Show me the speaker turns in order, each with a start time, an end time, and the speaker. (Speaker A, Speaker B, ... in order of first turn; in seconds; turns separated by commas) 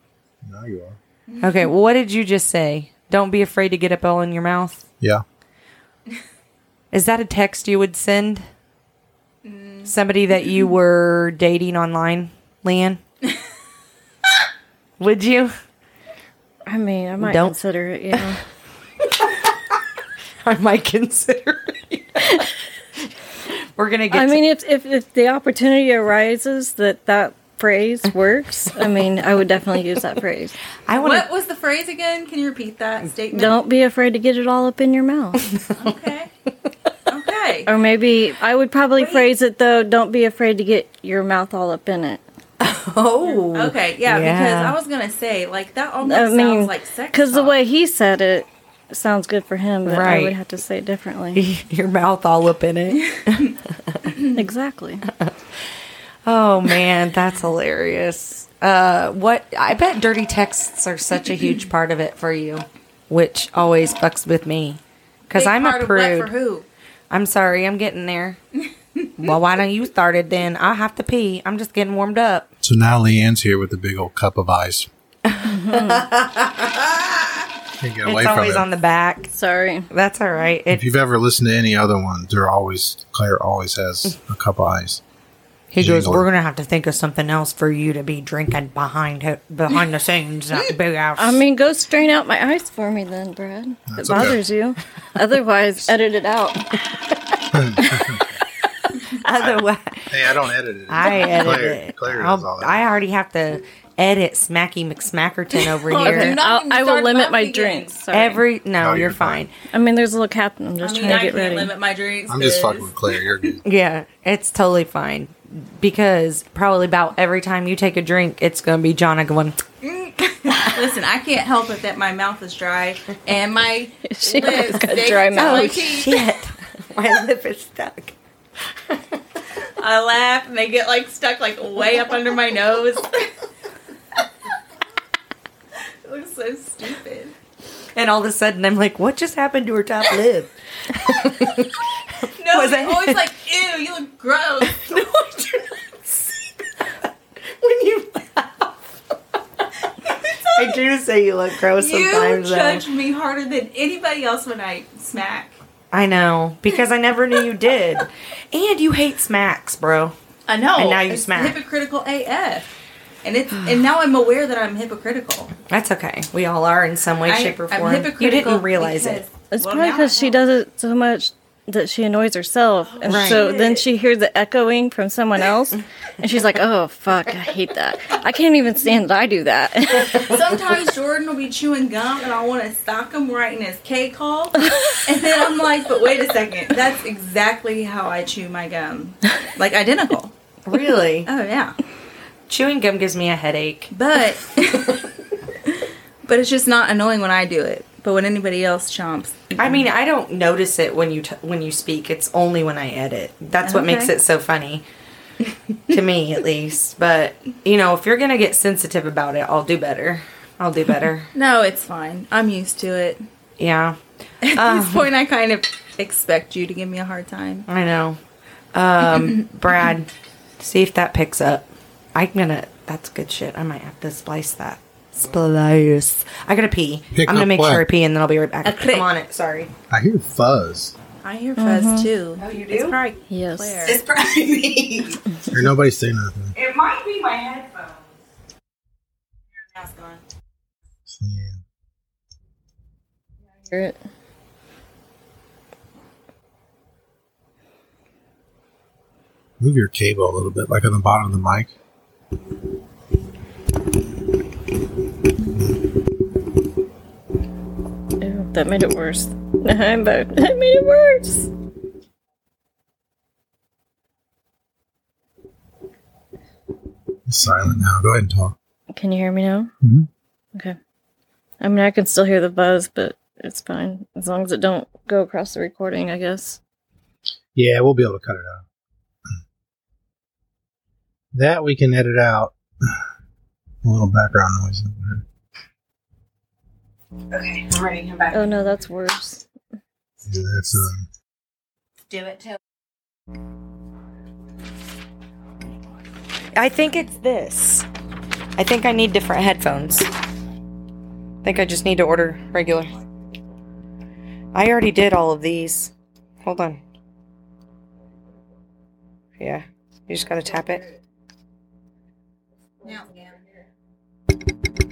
Speaker A: 0.4-1.0, Speaker B: 1.4-4.8, Speaker B: 6.9-8.4, Speaker C: 9.4-9.9, Speaker B: 9.8-13.0, Speaker B: 15.0-15.5, Speaker D: 16.6-18.4, Speaker B: 17.2-17.6, Speaker B: 20.4-22.5, Speaker B: 23.8-24.4, Speaker D: 24.1-30.6, Speaker B: 30.9-31.3, Speaker C: 31.0-33.6, Speaker D: 33.3-35.4, Speaker C: 35.7-36.3, Speaker C: 37.1-37.7, Speaker D: 37.7-42.2, Speaker C: 39.0-39.3, Speaker B: 42.6-44.8, Speaker C: 43.2-47.5, Speaker D: 46.0-51.4, Speaker B: 49.8-50.3, Speaker B: 51.3-54.1, Speaker D: 54.2-55.0, Speaker B: 56.2-64.8, Speaker B: 65.3-66.3, Speaker C: 65.3-66.7, Speaker B: 67.1-68.4, Speaker B: 69.2-72.5, Speaker A: 72.6-74.9, Speaker B: 75.3-77.5, Speaker D: 75.5-76.1, Speaker A: 77.8-78.7, Speaker B: 78.0-79.3, Speaker D: 79.3-79.9, Speaker B: 79.9-80.9, Speaker A: 80.7-85.0, Speaker B: 85.7-91.4, Speaker A: 85.8-86.2, Speaker D: 91.2-96.8, Speaker A: 93.9-94.4, Speaker A: 97.5-98.4, Speaker D: 97.8-98.1, Speaker B: 99.1-106.4, Speaker A: 99.4-102.8, Speaker C: 105.6-108.0, Speaker D: 106.0-108.4, Speaker B: 108.1-109.5, Speaker A: 108.8-109.4, Speaker D: 109.7-111.7, Speaker C: 110.8-113.2, Speaker A: 112.3-113.6, Speaker B: 113.6-119.6, Speaker C: 119.8-126.1, Speaker D: 124.0-126.1, Speaker B: 125.3-128.2, Speaker B: 128.9-129.2, Speaker C: 129.8-133.3, Speaker C: 136.0-137.3, Speaker B: 137.9-143.3, Speaker C: 142.3-145.3, Speaker B: 144.7-146.4, Speaker B: 147.5-148.9, Speaker C: 150.1-150.8, Speaker B: 150.3-152.8, Speaker C: 151.7-155.5, Speaker B: 155.9-160.1, Speaker C: 160.5-165.5, Speaker B: 160.7-161.6, Speaker B: 163.5-163.8, Speaker B: 165.7-169.2, Speaker C: 167.2-170.4, Speaker D: 169.5-180.4, Speaker C: 172.8-173.8, Speaker B: 173.0-173.4, Speaker C: 180.1-190.3, Speaker D: 184.6-185.0, Speaker B: 190.6-191.3, Speaker C: 191.2-191.8, Speaker B: 192.5-193.9, Speaker C: 193.9-195.0, Speaker C: 195.7-199.8, Speaker B: 199.6-204.8, Speaker C: 203.6-204.1, Speaker B: 205.9-211.3, Speaker C: 211.3-213.2, Speaker B: 213.6-215.1, Speaker C: 214.4-217.7, Speaker B: 217.7-218.2, Speaker B: 218.7-229.7, Speaker A: 227.1-227.8, Speaker C: 228.6-229.1, Speaker A: 229.9-230.9, Speaker C: 231.2-234.0, Speaker D: 231.6-232.1, Speaker B: 232.4-233.0, Speaker D: 233.3-233.9, Speaker B: 233.8-235.2, Speaker A: 235.5-236.5, Speaker B: 236.5-238.2, Speaker C: 239.6-240.2, Speaker A: 241.1-241.6, Speaker D: 243.7-243.9, Speaker A: 249.6-251.7, Speaker D: 258.2-261.5, Speaker A: 267.3-268.6, Speaker D: 268.9-269.7, Speaker A: 269.8-270.1, Speaker D: 271.6-276.6, Speaker A: 277.5-278.6, Speaker A: 281.3-283.0, Speaker A: 283.8-285.2, Speaker B: 287.3-288.4, Speaker D: 288.3-289.4, Speaker A: 290.2-291.1, Speaker B: 292.1-292.4, Speaker B: 296.5-297.9, Speaker B: 298.6-300.1, Speaker B: 301.4-302.9, Speaker B: 304.5-306.8, Speaker B: 309.4-310.9, Speaker C: 312.8-313.3